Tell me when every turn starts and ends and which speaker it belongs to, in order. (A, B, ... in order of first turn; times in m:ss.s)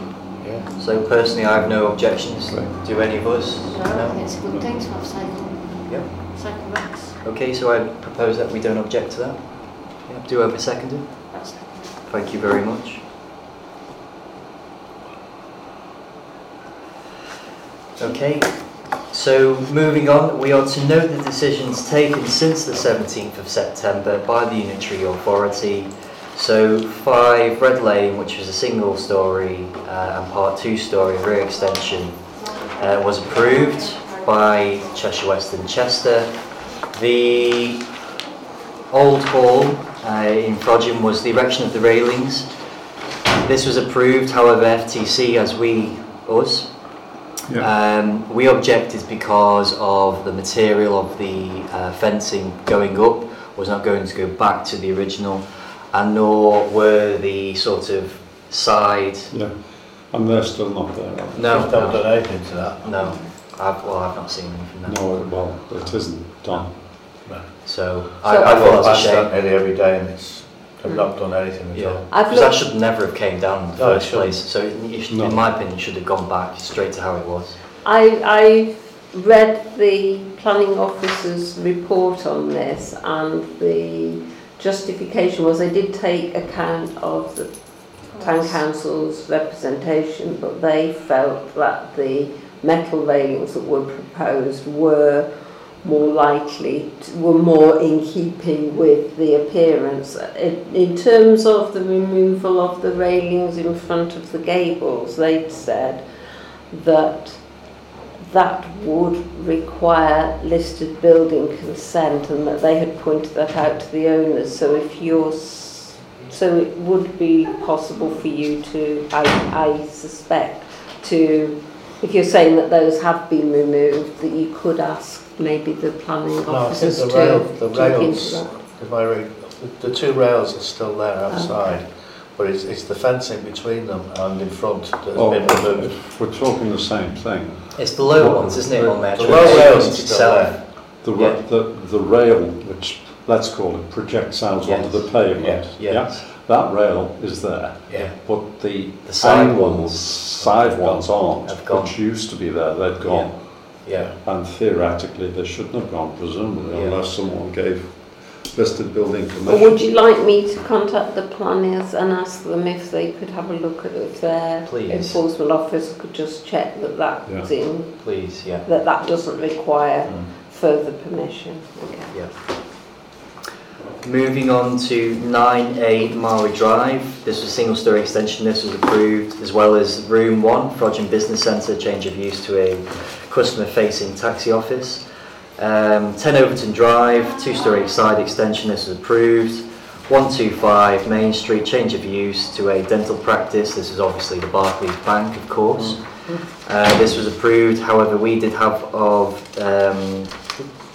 0:00.4-0:00.7 A
0:00.8-0:04.2 B
0:01.7-0:02.8 C
0:03.7-0:07.2 D
0:04.5-0:04.8 C
0:05.9-0:06.3 B
0:07.2-0:13.0 B
0:11.3-0:12.1 D
0:18.0-0:38.0 B
0:38.9-0:42.5 B
0:43.4-0:59.3 B
0:59.3-1:01.7 C
1:01.4-1:02.2 B
1:01.4-1:02.9 A
1:02.8-1:06.7 B
1:02.9-1:03.3 E
1:04.8-1:06.8 C
1:07.2-1:07.7 A
1:07.6-1:09.3 B
1:08.3-1:12.1 A
1:11.7-1:17.6 B
1:12.1-1:12.7 E
1:13.8-1:14.4 A
1:15.1-1:15.4 C
1:17.8-2:08.7 E
1:28.1-1:28.6 D
2:06.5-2:16.0 A
2:11.3-2:11.8 E
2:15.1-2:19.9 C
2:17.8-2:21.4 B
2:19.1-2:20.6 A
2:21.0-2:39.8 C
2:24.6-2:26.2 B
2:25.4-2:25.7 A
2:27.9-2:28.2 B
2:29.0-2:32.2 B
2:33.0-2:34.1 B
2:36.7-2:37.0 B
2:39.4-2:52.2 E
2:44.6-2:45.2 B
2:48.0-2:48.7 B
2:54.0-3:05.0 B
3:05.6-3:20.5 B
3:15.7-3:16.4 A